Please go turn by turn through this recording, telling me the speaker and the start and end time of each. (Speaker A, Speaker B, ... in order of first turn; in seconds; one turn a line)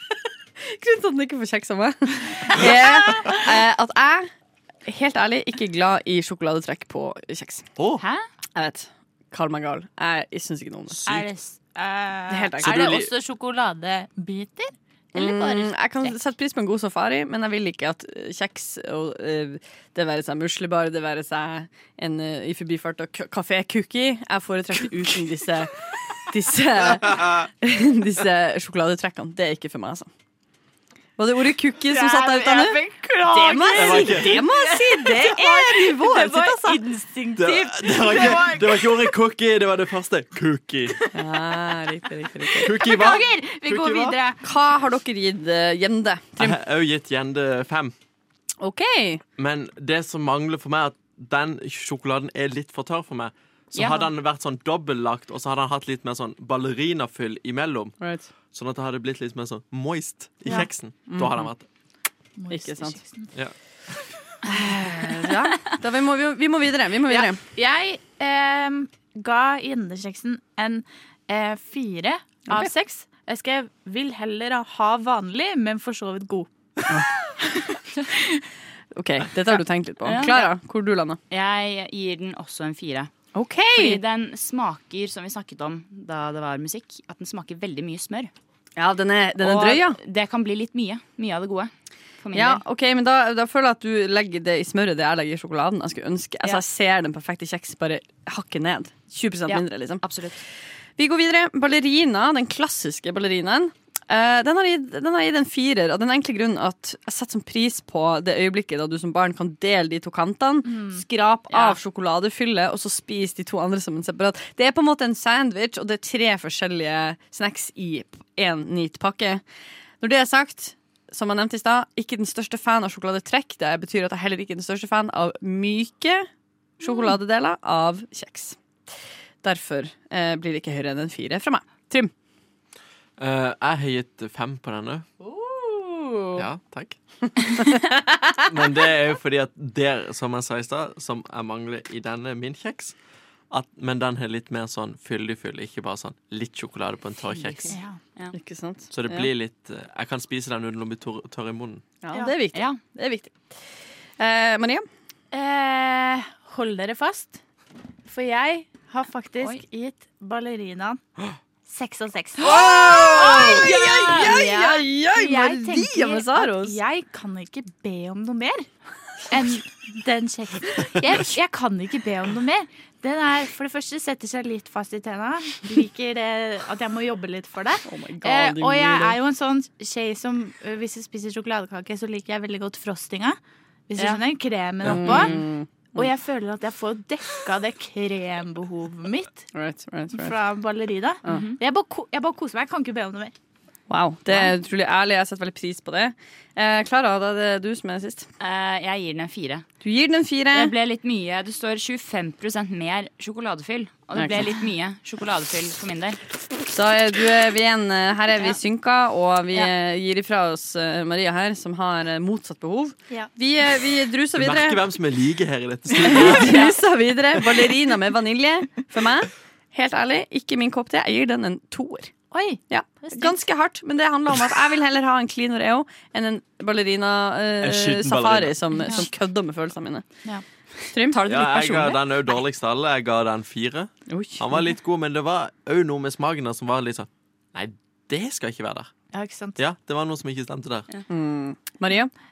Speaker A: 0.6-4.3
Speaker A: 4.9-7.7
Speaker B: 7.8-8.0
Speaker C: 8.0-8.3
Speaker A: 8.6-11.1
Speaker D: 11.1-16.1
Speaker A: 12.3-13.1
Speaker B: 12.6-13.1
Speaker A: 15.1-25.7
Speaker A: 26.3-30.1
Speaker B: 27.1-27.4
Speaker A: 31.2-36.8
Speaker D: 31.9-39.1
Speaker B: 33.8-34.5
Speaker B: 37.4-41.0
Speaker A: 41.1-42.9
Speaker B: 42.6-44.2
Speaker D: 42.6-44.4
Speaker A: 44.4-46.6
Speaker B: 46.4-47.9
Speaker A: 48.6-49.2
Speaker B: 49.4-58.0
Speaker C: 53.8-54.1
Speaker A: 58.0-58.3
Speaker B: 58.5-61.6
Speaker A: 61.1-61.5
Speaker D: 62.4-63.3
Speaker A: 62.5-63.0
Speaker A: 64.4-67.4
Speaker D: 65.0-65.3
Speaker D: 67.1-76.5
Speaker A: 76.9-77.8
Speaker A: 78.9-81.2
Speaker C: 80.1-80.5
Speaker C: 81.3-83.1
Speaker A: 83.3-84.0
Speaker C: 83.7-88.3
Speaker A: 88.8-90.0
Speaker C: 89.4-92.6
Speaker A: 92.3-100.0
Speaker C: 99.5-100.4
Speaker A: 101.0-119.4
Speaker D: 110.7-111.0
Speaker C: 111.5-111.8
Speaker A: 120.0-126.3
Speaker A: 126.8-128.6
Speaker A: 129.4-132.1
Speaker B: 133.2-135.1
Speaker A: 135.3-136.4
Speaker B: 136.4-137.0
Speaker A: 137.8-138.2
Speaker B: 138.4-142.9
Speaker B: 143.5-147.8
Speaker C: 147.3-148.3
Speaker D: 147.7-148.0
Speaker A: 148.3-149.3
Speaker B: 148.9-151.8
Speaker A: 152.0-153.4
Speaker C: 152.5-152.8
Speaker A: 154.2-154.9
Speaker D: 155.3-157.4
Speaker D: 158.1-161.0
Speaker D: 161.7-168.7
Speaker A: 162.4-166.8
Speaker C: 163.9-164.2
Speaker D: 169.3-183.4
Speaker A: 177.8-179.2
Speaker D: 183.9-185.4
Speaker A: 184.8-186.1
Speaker C: 185.0-185.4
Speaker D: 185.9-189.5
Speaker A: 189.5-190.3
Speaker D: 190.1-193.3
Speaker C: 191.3-191.6
Speaker A: 193.9-198.3
Speaker C: 198.4-199.7
Speaker A: 199.8-200.7
Speaker C: 200.5-206.2
Speaker A: 206.7-214.8
Speaker B: 214.4-216.7
Speaker A: 216.0-222.1
Speaker D: 222.3-223.4
Speaker A: 222.7-230.1
Speaker B: 227.6-228.7
Speaker D: 228.8-229.1
Speaker A: 230.9-232.0
Speaker B: 231.2-238.9
Speaker A: 234.1-234.4
Speaker D: 239.1-239.6
Speaker B: 239.6-240.9
Speaker A: 241.1-242.1